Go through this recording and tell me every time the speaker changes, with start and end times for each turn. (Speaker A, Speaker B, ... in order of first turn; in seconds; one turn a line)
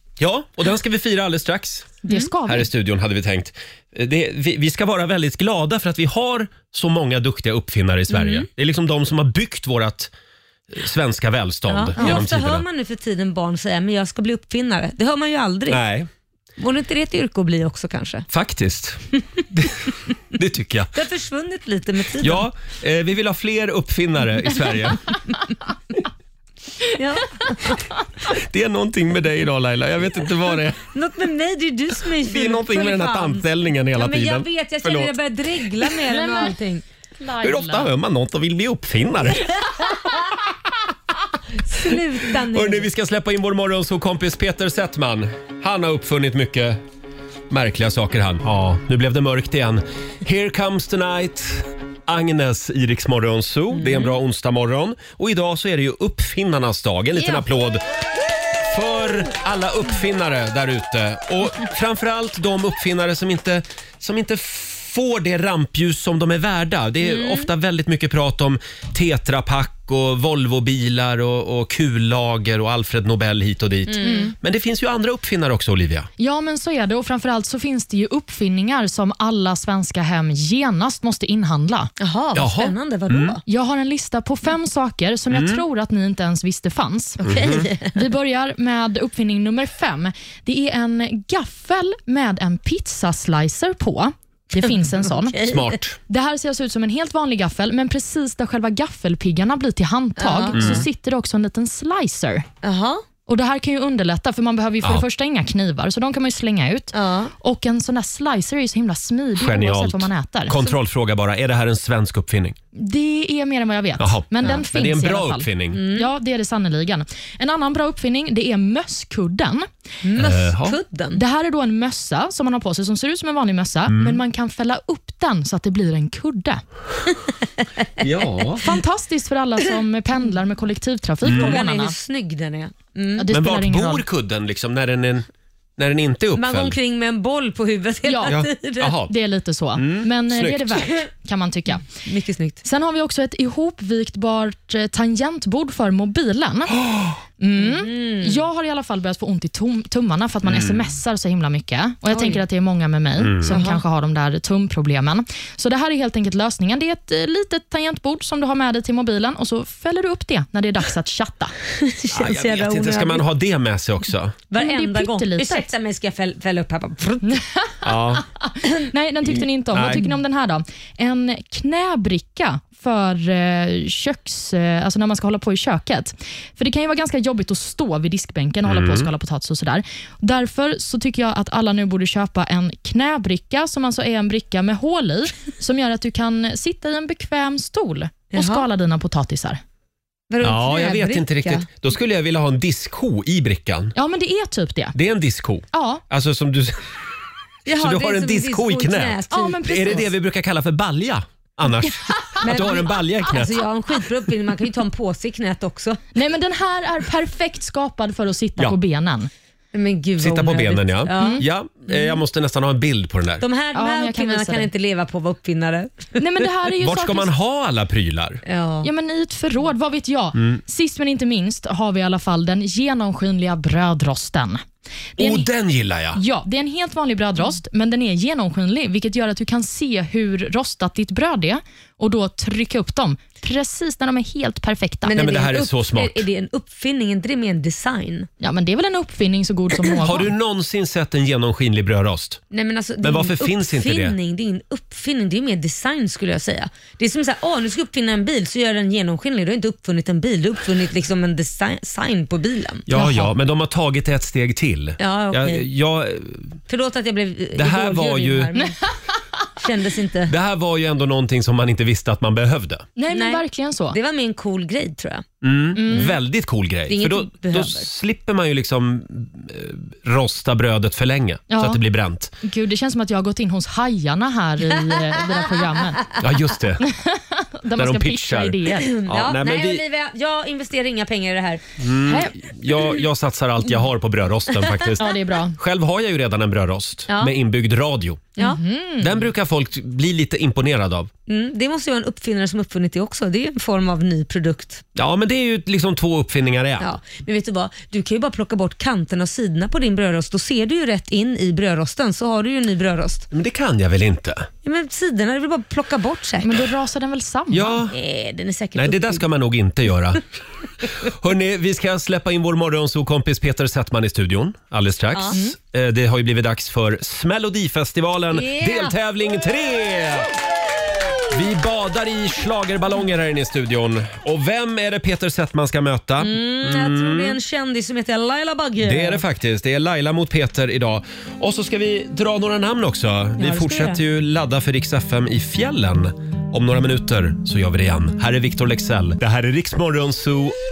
Speaker A: 0.2-10.1
Speaker B: 2.0-2.7
Speaker C: 8.1-8.5
Speaker A: 10.7-12.6
Speaker C: 11.7-15.8
Speaker B: 12.0-12.2
Speaker A: 15.7-16.1
Speaker C: 16.6-18.3
Speaker A: 18.3-20.9
Speaker C: 20.9-22.5
Speaker A: 22.2-25.0
Speaker C: 26.9-27.8
Speaker A: 28.3-30.8
Speaker C: 30.8-36.8
Speaker A: 32.2-35.1
Speaker B: 36.1-36.6
Speaker B: 37.2-37.9
Speaker A: 37.4-39.5
Speaker C: 41.6-42.9
Speaker A: 42.5-46.8
Speaker A: 47.5-57.8
Speaker C: 53.8-54.1
Speaker A: 58.5-76.1
Speaker C: 67.0-67.5
Speaker C: 73.9-74.3
Speaker B: 74.0-74.3
Speaker B: 76.2-81.9
Speaker C: 82.0-83.4
Speaker A: 82.4-83.4
Speaker B: 83.5-95.4
Speaker A: 85.3-85.6
Speaker A: 87.2-87.7
Speaker C: 87.2-87.9
Speaker A: 95.4-96.0
Speaker B: 96.1-102.5
Speaker C: 100.2-100.8
Speaker A: 100.5-100.9
Speaker C: 102.6-103.0
Speaker B: 103.3-110.7
Speaker C: 106.9-107.3
Speaker A: 109.4-112.6
Speaker B: 112.8-119.7
Speaker A: 114.0-115.8
Speaker C: 115.7-116.1
Speaker C: 120.0-121.2
Speaker A: 120.2-120.8
Speaker B: 121.1-126.6
Speaker A: 123.9-124.2
Speaker A: 128.0-128.7
Speaker B: 128.6-132.0
Speaker A: 131.2-131.6
Speaker C: 131.3-133.3
Speaker B: 133.2-134.1
Speaker A: 133.3-135.3
Speaker A: 135.8-136.8
Speaker C: 136.4-138.9
Speaker B: 138.1-138.4
Speaker A: 138.3-139.1
Speaker B: 139.0-141.8
Speaker A: 139.8-140.9
Speaker C: 142.0-142.6
Speaker B: 142.6-161.5
Speaker A: 146.8-147.2
Speaker C: 147.6-148.4
Speaker A: 150.5-150.8
Speaker C: 152.1-152.4
Speaker A: 153.2-153.6
Speaker C: 153.5-153.8
Speaker C: 161.8-163.3
Speaker A: 162.1-164.4
Speaker C: 164.5-167.4
Speaker B: 164.6-165.7
Speaker B: 167.3-189.6
Speaker A: 167.8-168.2
Speaker A: 169.7-170.0
Speaker A: 178.7-179.1
Speaker C: 188.3-188.7
Speaker C: 190.3-191.7
Speaker A: 190.4-193.9
Speaker B: 193.9-194.9
Speaker A: 194.9-196.9
Speaker B: 195.7-196.0
Speaker C: 197.7-200.0
Speaker A: 197.7-203.6
Speaker B: 199.3-200.1
Speaker C: 202.4-206.0
Speaker B: 206.2-209.3
Speaker C: 209.7-212.2
Speaker A: 210.2-213.4
Speaker B: 211.2-211.4
Speaker C: 213.4-216.2
Speaker B: 213.7-214.7
Speaker B: 216.2-217.3
Speaker A: 216.8-218.4
Speaker C: 218.5-218.9
Speaker B: 218.8-224.6
Speaker B: 225.2-225.5
Speaker A: 225.2-226.2
Speaker B: 226.2-235.2
Speaker C: 235.1-238.3
Speaker A: 235.2-236.2
Speaker B: 238.4-240.3
Speaker A: 240.0-242.4
Speaker C: 242.5-252.8
Speaker A: 243.0-244.2
Speaker A: 252.9-256.6
Speaker B: 252.9-253.3
Speaker C: 255.0-255.7
Speaker C: 256.7-258.8
Speaker A: 257.6-258.5
Speaker C: 259.6-260.3
Speaker A: 260.3-262.9
Speaker B: 263.0-264.0
Speaker C: 263.1-265.3
Speaker A: 265.4-272.3
Speaker B: 265.8-266.2
Speaker C: 265.9-266.1
Speaker C: 266.9-267.9
Speaker B: 271.5-271.8
Speaker B: 272.4-276.1
Speaker A: 276.2-276.9
Speaker B: 276.8-279.0
Speaker A: 277.8-279.8
Speaker C: 278.8-282.3
Speaker A: 281.8-288.3
Speaker B: 285.0-285.6
Speaker B: 288.4-289.2
Speaker A: 289.0-291.1
Speaker C: 291.3-294.9
Speaker A: 295.0-296.9
Speaker C: 296.8-303.3
Speaker A: 303.3-304.5
Speaker C: 304.6-306.6
Speaker B: 306.4-307.8
Speaker A: 307.5-307.9
Speaker C: 307.9-309.2
Speaker A: 308.8-310.2
Speaker A: 311.0-320.3
Speaker C: 315.1-315.4
Speaker C: 318.3-319.0
Speaker A: 321.3-327.4
Speaker C: 326.2-329.2
Speaker A: 328.8-340.6
Speaker C: 333.4-334.0